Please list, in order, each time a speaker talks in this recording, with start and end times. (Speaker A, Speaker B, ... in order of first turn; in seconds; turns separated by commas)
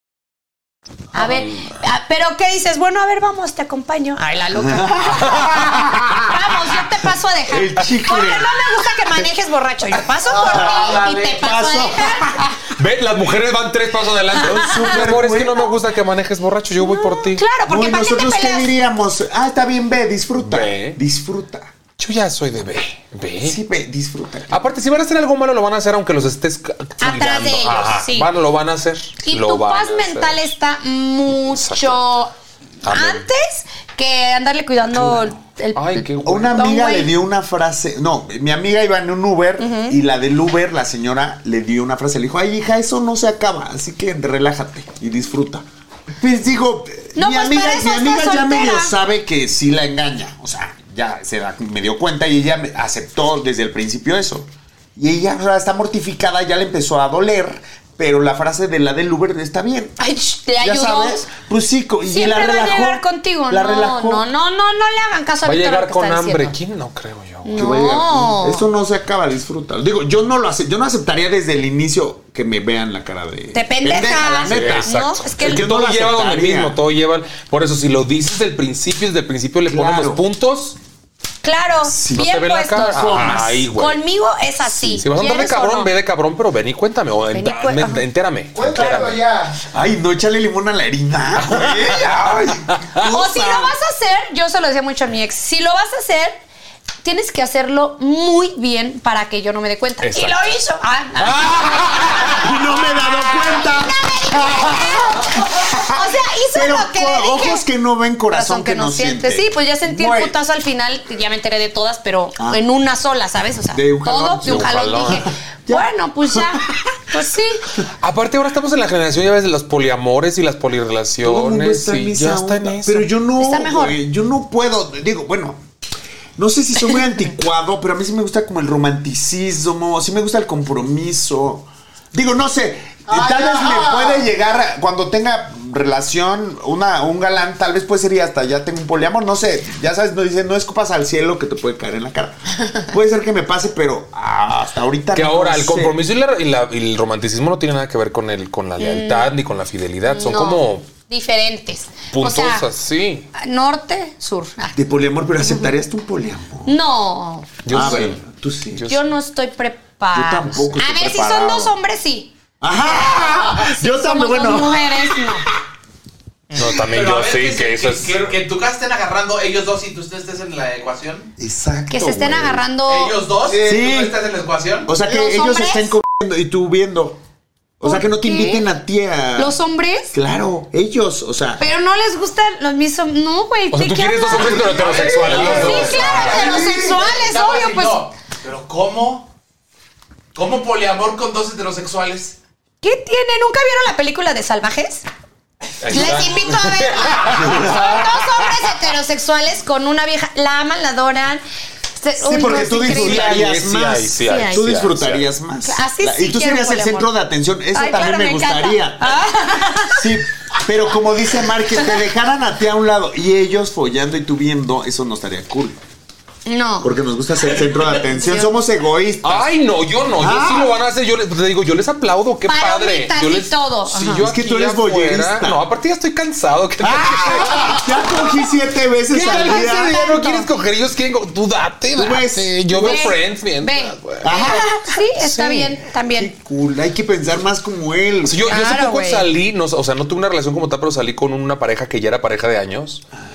Speaker A: 1.1-12.6, Speaker B: 1.2-1.7, Speaker C: 4.5-6.6, Speaker C: 7.5-9.3, Speaker D: 10.3-11.3, Speaker C: 10.4-12.4, Speaker B: 12.7-17.4, Speaker C: 14.3-15.7, Speaker A: 14.4-15.0, Speaker A: 16.8-18.7, Speaker C: 17.6-21.7, Speaker B: 20.4-21.0, Speaker B: 22.0-23.6, Speaker C: 23.4-24.6, Speaker B: 24.5-30.4, Speaker A: 27.0-28.3, Speaker A: 29.2-32.3, Speaker B: 31.3-32.1, Speaker B: 32.8-33.3, Speaker A: 32.8-37.1, Speaker B: 34.9-36.6, Speaker C: 36.2-45.6, Speaker A: 39.6-40.0, Speaker C: 46.2-59.9, Speaker A: 47.1-48.9, Speaker A: 60.0-61.2, Speaker C: 60.6-64.2, Speaker A: 62.1-66.5, Speaker B: 65.4-67.6, Speaker A: 67.4-68.7, Speaker C: 67.5-76.8, Speaker A: 73.5-75.6, Speaker B: 74.5-80.8, Speaker C: 79.7-80.2, Speaker A: 81.4-85.9, Speaker C: 81.8-83.7, Speaker B: 82.1-84.0, Speaker B: 84.7-89.2, Speaker A: 87.3-88.0, Speaker D: 88.5-89.6, Speaker C: 89.7-93.7, Speaker B: 91.4-92.2, Speaker B: 92.7-93.0, Speaker A: 93.0-96.4, Speaker A: 97.0-107.6, Speaker B: 100.0-100.3, Speaker B: 101.2-102.5, Speaker C: 102.3-110.3, Speaker A: 108.3-117.7, Speaker C: 113.7-116.7, Speaker B: 114.4-115.2, Speaker B: 118.0-123.1, Speaker C: 121.2-125.6, Speaker A: 123.4-124.0, Speaker C: 126.3-145.9, Speaker D: 133.1-134.2, Speaker B: 145.1-150.9, Speaker A: 148.8-149.3, Speaker A: 150.1-152.6, Speaker B: 152.1-153.3, Speaker A: 153.3-154.8, Speaker C: 154.7-156.8, Speaker A: 155.4-155.7, Speaker A: 156.7-158.1, Speaker B: 157.6-158.2, Speaker C: 157.7-158.9, Speaker B: 158.8-159.0, Speaker A: 158.9-165.5, Speaker C: 160.1-161.7, Speaker C: 162.6-165.3, Speaker B: 166.5-168.3, Speaker E: 166.7-171.3, Speaker C: 171.4-172.6, Speaker A: 171.9-173.2, Speaker E: 172.8-174.9, Speaker D: 173.5-173.8, Speaker C: 173.6-174.2, Speaker C: 174.8-177.2, Speaker A: 175.1-175.9, Speaker C: 177.8-179.6, Speaker A: 177.8-178.6, Speaker A: 179.4-180.2, Speaker C: 180.1-181.6, Speaker A: 181.6-188.0, Speaker B: 183.7-186.4, Speaker D: 184.3-186.8, Speaker E: 184.6-189.3, Speaker E: 190.3-192.4, Speaker A: 192.8-195.1, Speaker B: 195.8-198.6, Speaker A: 195.9-201.4, Speaker C: 197.3-197.9, Speaker A: 201.9-203.5, Speaker C: 202.2-209.2, Speaker B: 202.7-205.3, Speaker A: 204.2-204.6, Speaker A: 205.6-207.1, Speaker A: 207.7-210.0, Speaker C: 209.8-215.8, Speaker A: 216.4-217.0, Speaker C: 216.8-219.5, Speaker A: 217.7-218.5, Speaker B: 219.2-227.9, Speaker C: 220.1-220.7, Speaker A: 222.5-224.3, Speaker C: 224.2-225.7, Speaker C: 226.8-230.0, Speaker A: 227.4-227.8, Speaker B: 229.1-235.8, Speaker A: 229.2-230.5, Speaker C: 231.9-233.1, Speaker A: 232.7-236.3, Speaker C: 234.2-234.7, Speaker C: 236.1-238.5, Speaker B: 238.2-243.0, Speaker A: 238.4-239.3